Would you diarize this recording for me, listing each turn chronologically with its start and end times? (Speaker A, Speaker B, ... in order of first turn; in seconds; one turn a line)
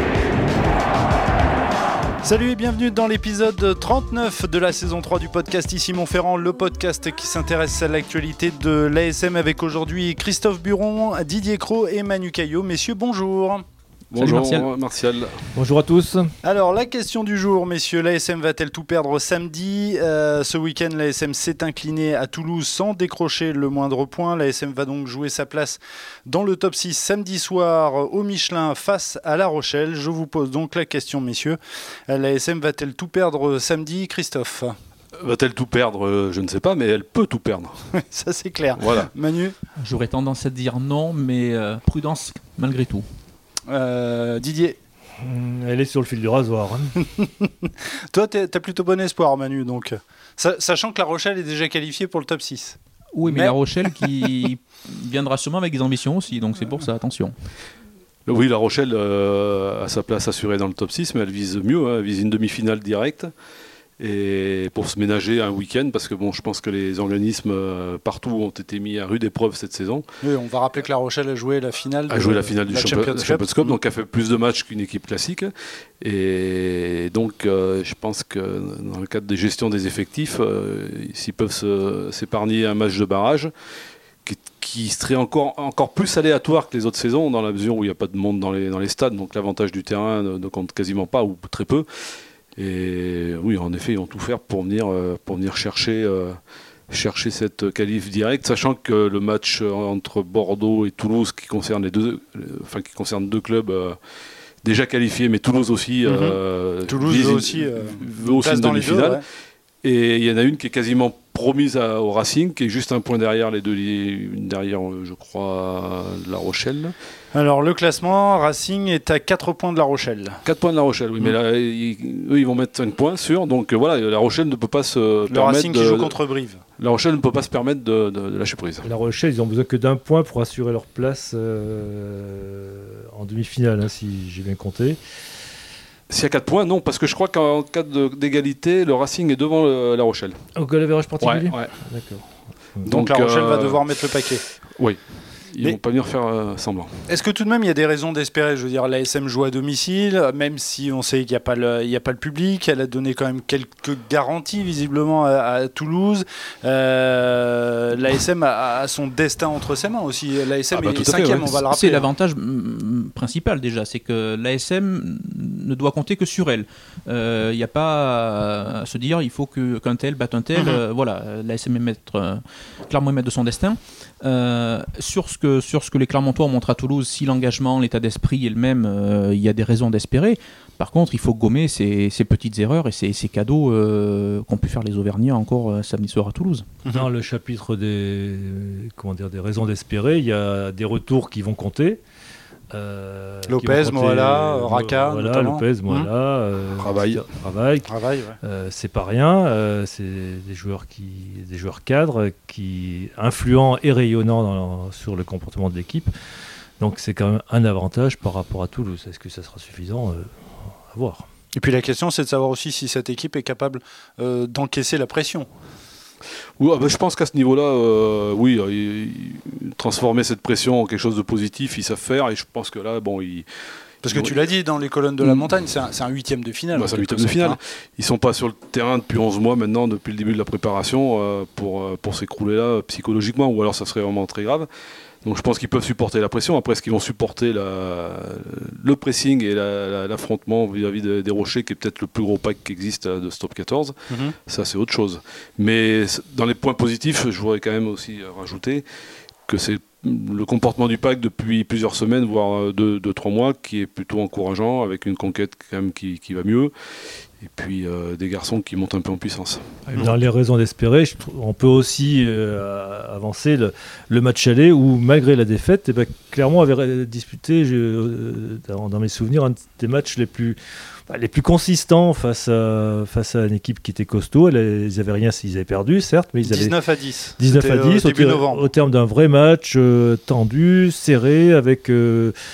Speaker A: 2.2-13.6
Speaker B: 14.1-15.5
Speaker C: 14.2-14.7
Speaker D: 15.6-16.3
Speaker A: 16.4-34.8
Speaker B: 35.2-37.8
Speaker A: 38.0-39.6
Speaker B: 38.8-39.1
Speaker C: 39.8-43.0
Speaker A: 43.7-44.8
Speaker D: 45.2-47.0
Speaker A: 48.1-52.8
Speaker C: 53.1-57.3
Speaker A: 53.3-54.3
Speaker B: 58.3-63.3
Speaker B: 64.0-70.0
Speaker A: 70.2-73.8
Speaker B: 72.1-83.5
Speaker B: 84.2-91.9
Speaker B: 92.6-96.4
Speaker B: 96.9-104.0
Speaker B: 104.6-109.2
Speaker A: 106.0-109.2
Speaker B: 109.8-116.9
Speaker A: 117.3-120.4
Speaker B: 120.4-126.2
Speaker A: 125.3-126.6
Speaker B: 126.8-128.9
Speaker D: 128.8-135.0
Speaker B: 136.1-140.4
Speaker D: 140.6-142.9
Speaker B: 141.2-141.7
Speaker A: 142.8-144.4
Speaker B: 142.9-143.8
Speaker B: 144.8-146.9
Speaker A: 147.1-162.1
Speaker B: 160.7-161.6
Speaker C: 161.7-186.7
Speaker A: 170.6-170.8
Speaker D: 186.9-192.0
Speaker D: 192.7-206.1
Speaker A: 193.5-196.1
Speaker B: 196.8-197.2
Speaker A: 197.8-198.4
Speaker D: 206.8-210.3
Speaker D: 210.9-211.3
Speaker A: 211.5-215.5
Speaker B: 216.6-223.5
Speaker B: 224.1-224.4
Speaker A: 224.1-227.6
Speaker B: 225.2-225.5
Speaker B: 226.8-234.7
Speaker B: 235.2-243.9
Speaker A: 244.1-244.3
Speaker B: 244.5-248.8
Speaker B: 249.5-256.7
Speaker B: 257.4-260.1
Speaker D: 259.9-270.6
Speaker D: 271.1-276.8
Speaker A: 276.4-278.7
Speaker D: 277.4-282.4